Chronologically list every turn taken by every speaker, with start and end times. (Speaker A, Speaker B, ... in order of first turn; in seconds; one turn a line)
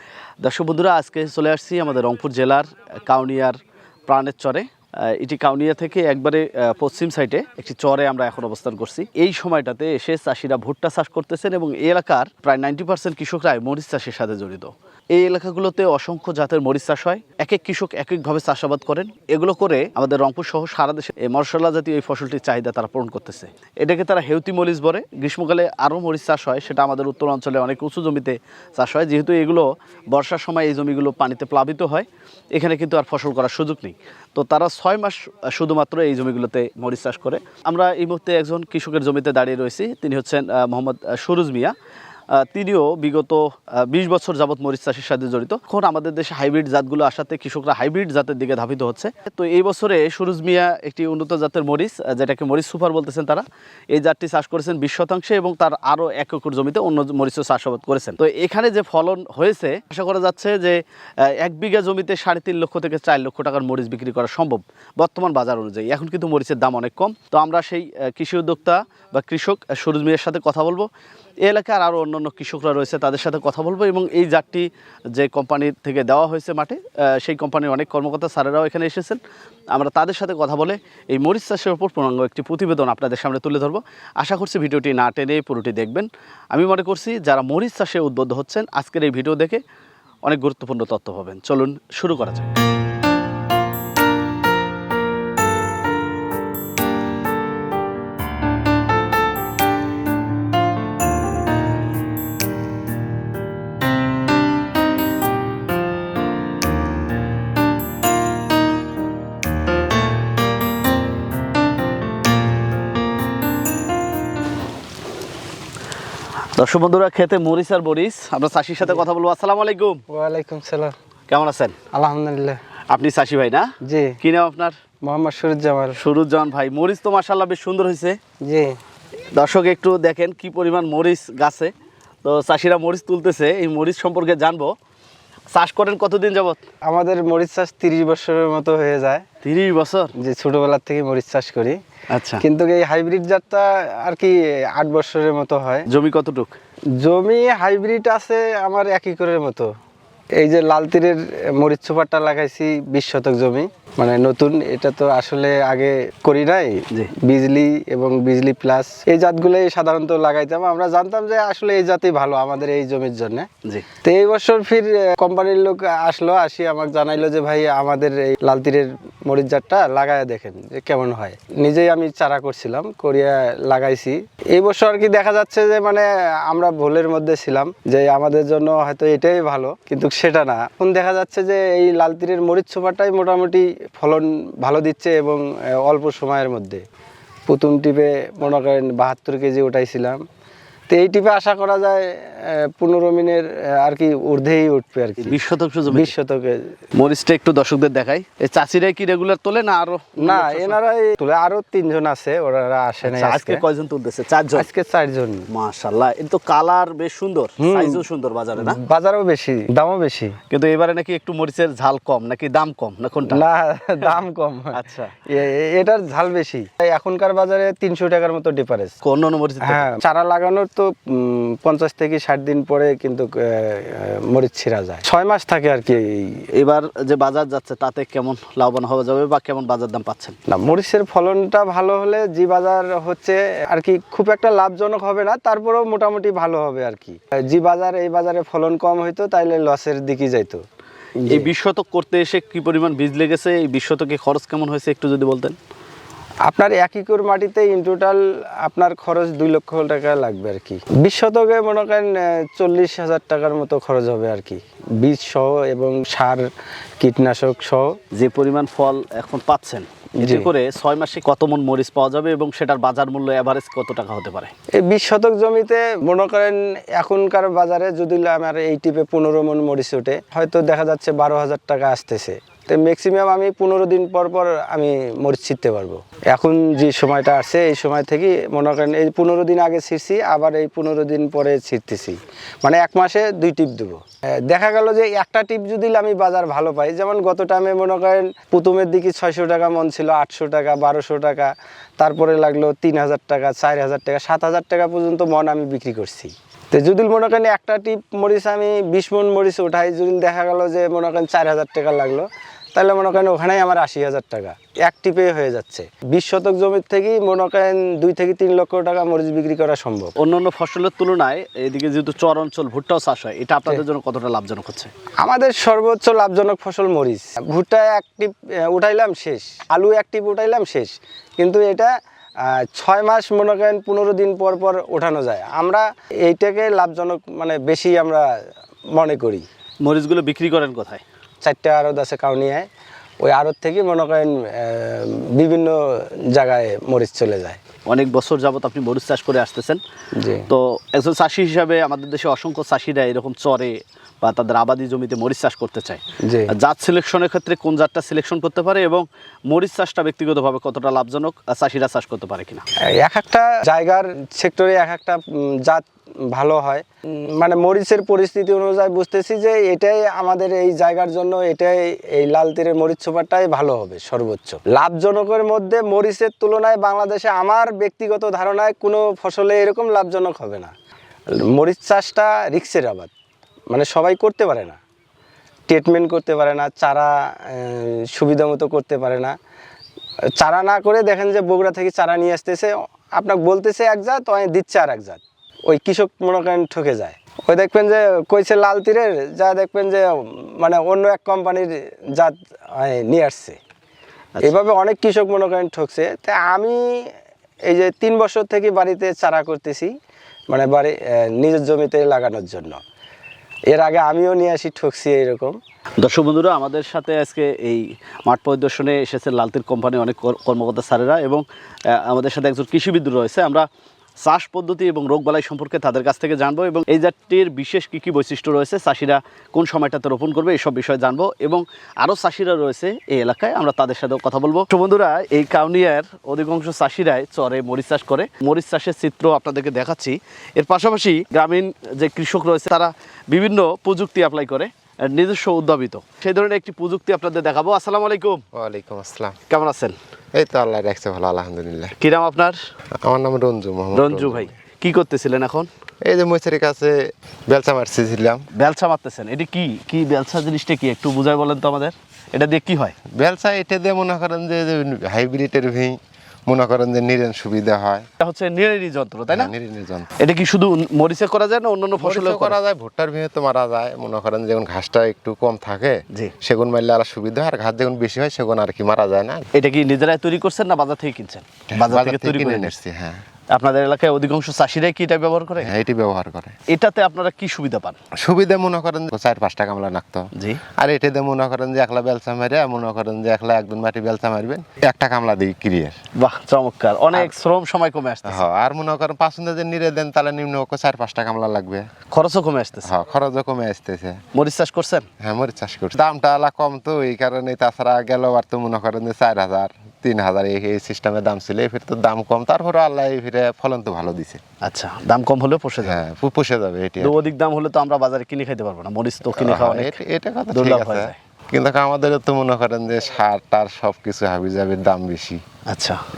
Speaker A: 0.4-41.8
Speaker A: 42.3-70.9
Speaker A: 71.4-79.2
Speaker A: 79.7-89.6
Speaker A: 90.2-92.6
Speaker A: 116.6-120.0
Speaker B: 120.1-120.9
Speaker A: 121.3-121.8
Speaker B: 121.9-122.6
Speaker A: 122.9-124.8
Speaker B: 123.9-124.2
Speaker B: 125.0-126.0
Speaker A: 126.0-128.2
Speaker B: 128.4-128.8
Speaker A: 129.3-131.7
Speaker A: 132.2-134.7
Speaker A: 135.5-136.6
Speaker B: 136.9-139.2
Speaker A: 139.4-140.1
Speaker B: 140.2-141.8
Speaker A: 142.1-142.4
Speaker B: 142.4-145.9
Speaker A: 145.9-146.6
Speaker B: 147.0-149.7
Speaker B: 150.4-163.5
Speaker B: 164.0-186.8
Speaker B: 187.5-190.2
Speaker B: 190.9-195.4
Speaker A: 195.2-196.1
Speaker B: 195.9-196.6
Speaker A: 197.0-200.8
Speaker B: 200.2-203.6
Speaker A: 203.0-204.7
Speaker B: 204.6-205.5
Speaker A: 205.5-208.8
Speaker B: 207.6-208.0
Speaker B: 208.6-210.3
Speaker A: 210.5-213.4
Speaker B: 213.3-214.8
Speaker A: 214.8-215.1
Speaker B: 215.3-218.9
Speaker A: 219.0-219.9
Speaker B: 219.6-226.3
Speaker A: 226.6-230.4
Speaker B: 230.5-240.6
Speaker B: 241.2-241.5
Speaker A: 241.3-245.6
Speaker B: 246.5-256.5
Speaker B: 257.0-257.9
Speaker A: 258.1-264.5
Speaker B: 260.2-260.5
Speaker B: 264.8-310.1
Speaker A: 310.2-314.9
Speaker B: 315.2-321.9
Speaker B: 322.5-328.2
Speaker B: 328.9-329.4
Speaker A: 329.8-331.0
Speaker B: 331.4-332.7
Speaker B: 333.2-335.8
Speaker B: 336.3-337.6
Speaker A: 337.9-339.8
Speaker B: 340.2-340.5
Speaker A: 340.5-352.6
Speaker B: 353.0-356.9
Speaker B: 357.4-370.7
Speaker B: 371.5-373.1
Speaker B: 373.7-374.8
Speaker B: 375.7-379.4
Speaker B: 380.4-390.1
Speaker B: 390.6-393.6
Speaker A: 394.4-394.6
Speaker B: 394.4-397.0
Speaker B: 397.7-399.9
Speaker B: 400.5-402.8
Speaker B: 403.7-405.6
Speaker A: 406.0-413.7
Speaker A: 414.2-438.4
Speaker C: 438.5-439.4
Speaker A: 439.5-439.9
Speaker C: 440.3-441.9
Speaker A: 442.0-442.6
Speaker C: 443.0-444.5
Speaker A: 443.9-445.7
Speaker C: 446.1-446.9
Speaker C: 447.5-448.4
Speaker A: 448.6-453.0
Speaker C: 453.1-458.1
Speaker A: 458.2-459.5
Speaker C: 459.3-460.1
Speaker A: 460.2-462.6
Speaker C: 462.0-469.5
Speaker A: 469.6-472.8
Speaker C: 471.7-473.2
Speaker A: 473.5-475.7
Speaker C: 475.6-476.5
Speaker A: 476.7-478.0
Speaker C: 478.2-485.9
Speaker A: 480.4-480.6
Speaker A: 486.2-488.4
Speaker C: 488.3-491.9
Speaker A: 492.1-492.9
Speaker C: 492.9-494.2
Speaker A: 494.3-495.1
Speaker C: 495.2-504.4
Speaker A: 504.6-506.0
Speaker C: 505.8-507.2
Speaker A: 507.0-510.0
Speaker C: 509.3-515.4
Speaker A: 510.5-511.2
Speaker A: 515.7-516.0